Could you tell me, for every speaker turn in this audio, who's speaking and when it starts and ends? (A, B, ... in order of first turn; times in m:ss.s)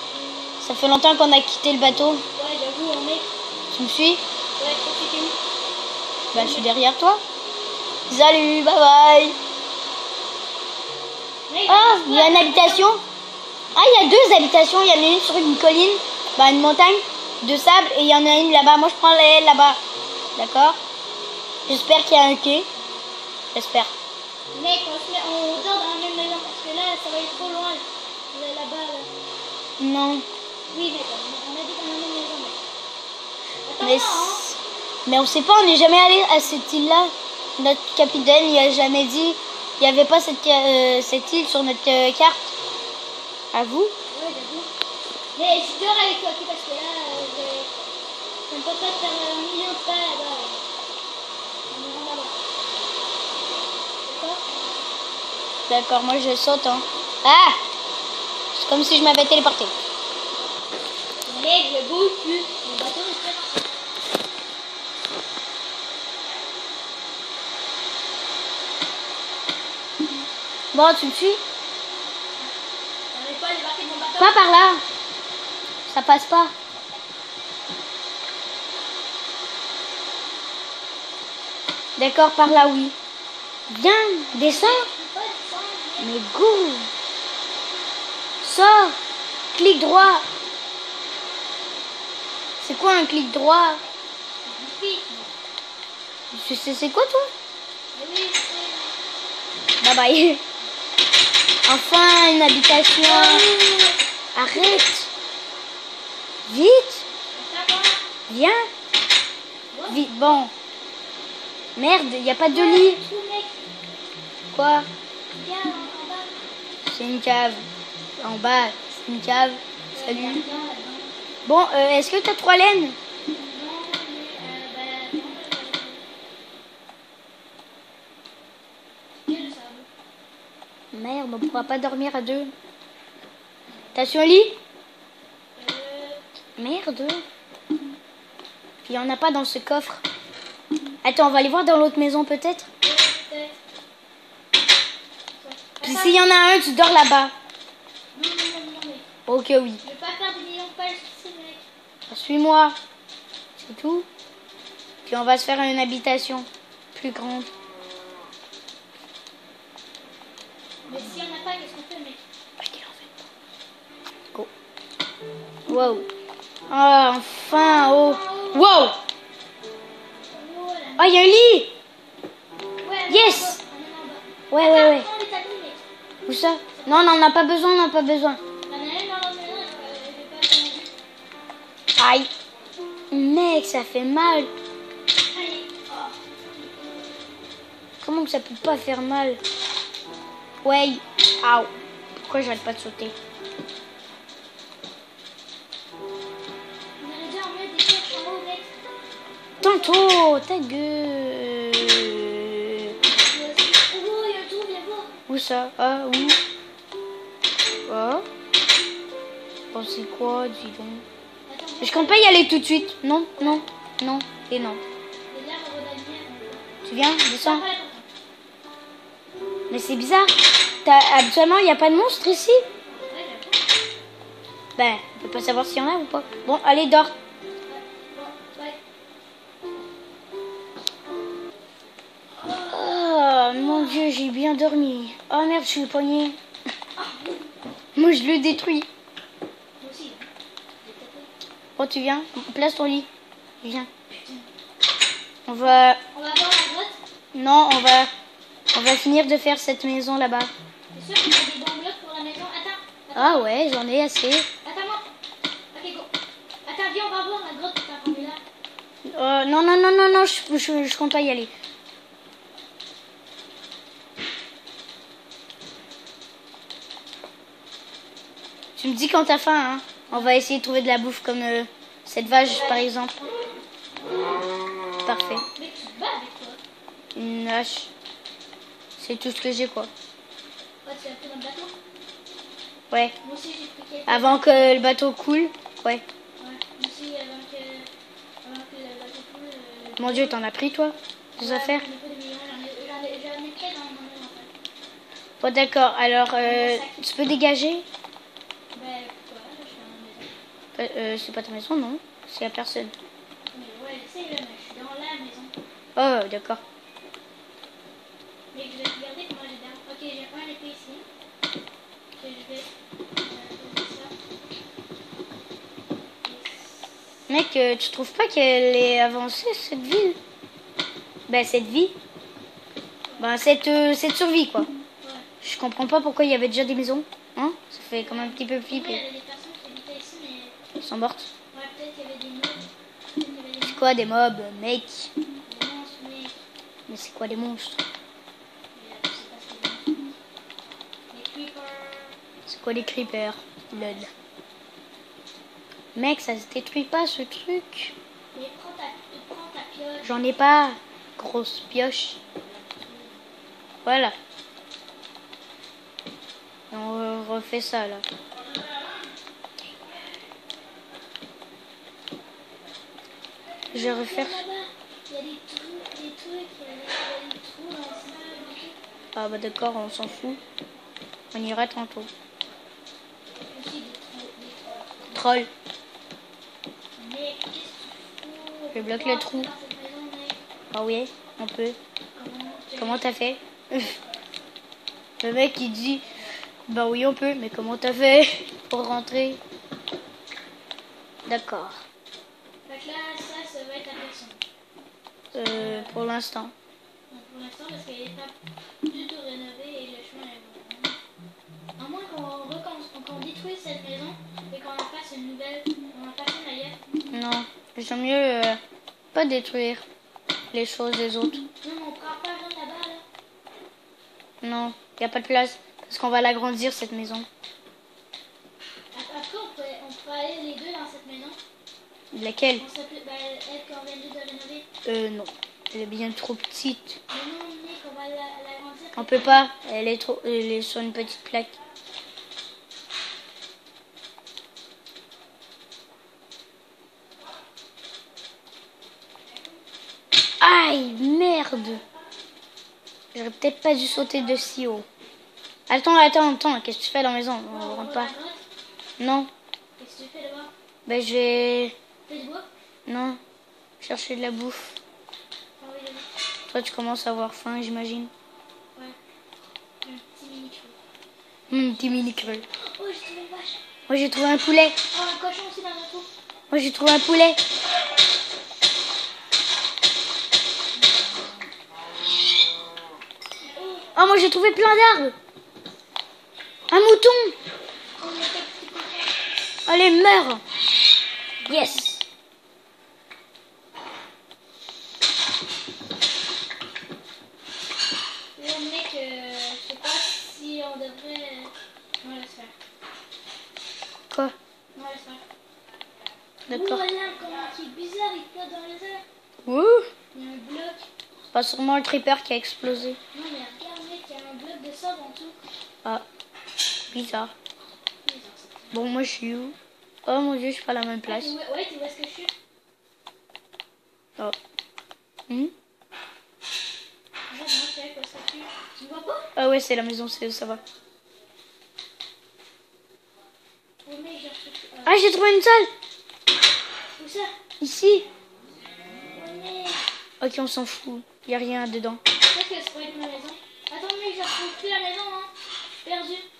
0:00.6-0:02.2 A
0:02.4-0:03.3 B
0:03.7-0:04.2 A
0:04.6-0:05.4 B
0:06.3-0:06.7 B
0:06.3-0:07.2 A
0:08.1-0:09.4 A
0:11.5-0:12.8 B
0:11.7-0:13.0 A
0:13.7-0:19.8 A
0:20.4-0:20.8 A
0:21.6-0:22.7 A
0:23.5-0:23.9 A
0:24.5-0:29.1 B
0:29.8-0:30.2 A
0:30.7-0:32.6 B
0:33.6-0:34.4 B
0:33.8-0:42.5 A
0:43.5-0:43.9 A
0:44.1-0:44.7 B
0:45.3-0:47.7 B
0:48.5-0:50.6 B
0:51.7-0:52.4 B
0:54.0-0:54.4 B
0:55.7-0:57.6 A
0:58.5-0:59.7 A
1:01.2-1:03.6 B
1:10.7-1:11.4 A
1:13.1-1:14.4 B
1:14.2-1:14.8 A
1:15.9-1:16.5 A
1:22.0-1:22.9 A
1:23.7-1:24.8 A
1:24.4-1:26.1 B
1:26.0-1:26.9 A
1:28.4-1:29.0 A
1:29.5-1:30.2 A
1:32.6-1:33.8 A
1:34.4-1:35.3 B
1:36.3-1:37.3 A
1:37.9-1:38.9 B
1:39.8-1:40.4 A
1:41.6-1:43.4 A
1:43.0-1:44.0 B
1:44.3-1:45.1 A
1:44.5-1:44.8 B
1:46.4-1:47.0 A
1:47.3-1:48.1 B
1:48.3-1:48.6 A
1:49.7-1:50.4 B
1:49.9-1:50.5 A
1:51.8-1:53.0 A
1:52.5-1:53.6 B
1:54.5-1:54.9 A
1:55.3-1:56.4 B
1:56.8-1:57.6 A
1:58.2-2:00.4 A
1:59.9-2:01.1 B
2:01.4-2:03.0 A
2:03.3-2:06.0 B
2:09.2-2:09.9 B
2:10.9-2:12.5 A
2:13.9-2:14.6 A
2:15.6-2:16.2 B
2:16.6-2:17.2 A
2:18.8-2:20.0 A
2:21.0-2:22.7 A
2:22.8-2:23.6 B
2:25.3-2:26.2 B
2:25.8-2:27.3 A
2:28.1-2:29.0 B
2:29.3-2:29.8 A
2:29.8-2:31.6 B
2:32.1-2:32.8 A
2:33.6-2:34.1 A
2:35.0-2:37.5 A
2:40.9-2:42.2 B
2:42.6-2:43.1 A
2:45.7-2:46.1 A
2:46.7-2:49.0 A
2:47.5-2:48.7 B
2:50.3-2:51.1 B
2:51.0-2:51.7 A
2:52.8-2:55.8 B
2:53.1-2:53.6 A
2:54.5-2:55.0 A
2:56.2-2:58.4 A
2:56.7-2:57.2 B
2:58.7-3:00.9 B
3:02.0-3:02.3 A
3:03.1-3:04.5 A
3:05.3-3:06.2 B
3:08.0-3:09.4 A
3:10.6-3:13.1 A
3:17.0-3:18.7 B
3:19.6-3:23.0 A
3:19.6-3:19.9 B
3:23.0-3:25.1 B
3:25.3-3:26.4 A
3:27.9-3:28.2 A
3:29.7-3:31.0 A
3:31.5-3:32.3 B
3:31.8-3:34.8 A
3:33.4-3:33.6 B
3:35.3-3:36.6 B
3:36.8-3:37.6 A
3:37.4-3:38.1 B
3:39.7-3:42.6 A
3:42.9-3:43.6 B
3:44.8-3:47.1 A
3:47.7-3:48.8 B
3:52.4-3:52.8 B
3:52.4-3:56.4 A
3:53.5-3:54.1 B
3:57.0-3:57.5 B
3:57.9-3:58.9 A
3:59.8-4:00.3 B
4:00.8-4:01.3 B
4:01.8-4:03.1 A
4:03.6-4:03.9 A
4:04.1-4:04.5 B
4:05.5-4:06.0 A
4:06.1-4:07.0 B
4:07.3-4:08.1 A
4:08.7-4:10.5 A
4:10.9-4:13.5 B
4:13.2-4:14.5 A
4:14.6-4:15.0 B
4:15.7-4:16.1 B
4:16.6-4:18.4 B
4:19.0-4:21.5 A
4:28.8-4:33.1 A
4:30.1-4:30.3 B
4:32.2-4:33.6 B
4:35.0-4:35.4 A
4:35.6-4:36.6 B
4:37.1-4:37.9 A
4:39.0-4:39.9 A
4:40.8-4:41.7 B
4:43.2-4:44.9 B
4:44.1-4:46.0 A
4:46.4-4:47.9 B
4:48.4-4:50.4 B
4:50.0-4:51.8 A
4:51.4-4:54.5 B
4:55.4-4:57.8 A
4:56.4-4:57.0 B
4:58.7-5:00.3 B
5:00.8-5:02.9 A
5:03.5-5:05.5 B
5:06.0-5:06.6 A
5:08.5-5:11.0 B
5:12.2-5:12.7 B
5:13.2-5:14.1 B
5:16.2-5:17.2 B
5:17.3-5:20.2 A
5:21.3-5:21.9 A
5:23.2-5:24.7 A
5:25.4-5:29.0 A
5:28.0-5:30.5 B
5:30.8-5:31.3 A
5:31.5-5:33.9 B
5:33.6-5:35.1 A
5:35.4-5:36.4 B
5:36.9-5:37.8 A
5:38.7-5:40.1 B
5:41.1-5:42.1 B
5:42.5-5:44.1 A
5:43.7-5:44.0 B
5:45.9-5:47.9 A
5:48.3-5:50.3 B
5:50.0-5:52.2 A
5:53.8-5:54.1 A
5:56.7-5:58.0 A
6:03.7-6:04.4 A
6:03.7-6:08.8 B
6:09.1-6:10.4 A
6:11.3-6:12.1 A
6:13.5-6:14.9 B
6:15.1-6:15.5 A
6:17.0-6:20.4 B
6:18.7-6:19.5 A
6:20.7-6:21.8 A
6:22.1-6:23.0 B
6:22.8-6:24.0 A
6:25.2-6:26.0 A
6:26.7-6:29.4 A
6:31.2-6:31.8 A
6:32.6-6:34.4 B
6:35.3-6:36.5 A
6:35.4-6:36.0 B
6:37.1-6:38.3 B
6:38.8-6:41.0 B
6:41.8-6:46.8 B
6:47.1-6:48.6 A
6:49.1-6:49.8 A
6:50.5-6:51.4 A
6:51.6-6:53.0 B
6:54.4-6:57.3 A
6:58.9-7:01.4 B
7:02.1-7:02.6 A
7:02.6-7:04.6 B
7:04.8-7:07.0 A
7:07.1-7:09.4 B
7:08.9-7:11.6 A
7:20.4-7:21.8 A
7:23.1-7:24.8 A
7:25.7-7:28.1 A
7:27.5-7:28.4 B
7:29.0-7:29.3 A
7:29.8-7:30.5 B
7:30.8-7:31.7 A
7:32.1-7:32.5 B
7:32.8-7:33.2 A
7:33.8-7:34.8 A
7:35.6-7:36.1 B
7:36.5-7:38.1 A
7:39.8-7:40.8 B
7:41.5-7:42.4 A
7:42.5-7:43.6 B
7:43.9-7:44.8 A
7:44.9-7:46.1 B
7:46.5-7:47.4 A
7:53.5-7:53.9 B
7:53.9-7:55.1 A
7:56.7-7:57.3 A
7:58.0-7:59.1 B
7:59.7-8:00.4 A
8:01.4-8:01.8 B
8:01.4-8:02.0 A
8:08.4-8:12.5 B
8:14.7-8:15.2 B
8:16.5-8:19.0 B
8:16.5-8:16.8 A
8:19.4-8:19.9 A
8:20.1-8:20.8 B
8:21.3-8:23.0 A
8:23.1-8:25.4 B
8:26.9-8:27.3 A
8:28.0-8:28.6 B
8:28.7-8:29.5 A
8:30.0-8:31.3 A
8:31.0-8:32.3 B
8:37.3-8:39.3 B
8:39.3-8:40.6 A
8:43.8-8:45.0 B
8:44.8-8:45.7 A
8:47.0-8:47.3 B
8:47.6-8:48.1 A
8:49.1-8:49.8 B
8:50.2-8:52.0 A
8:52.3-8:55.3 B
8:55.8-8:56.2 B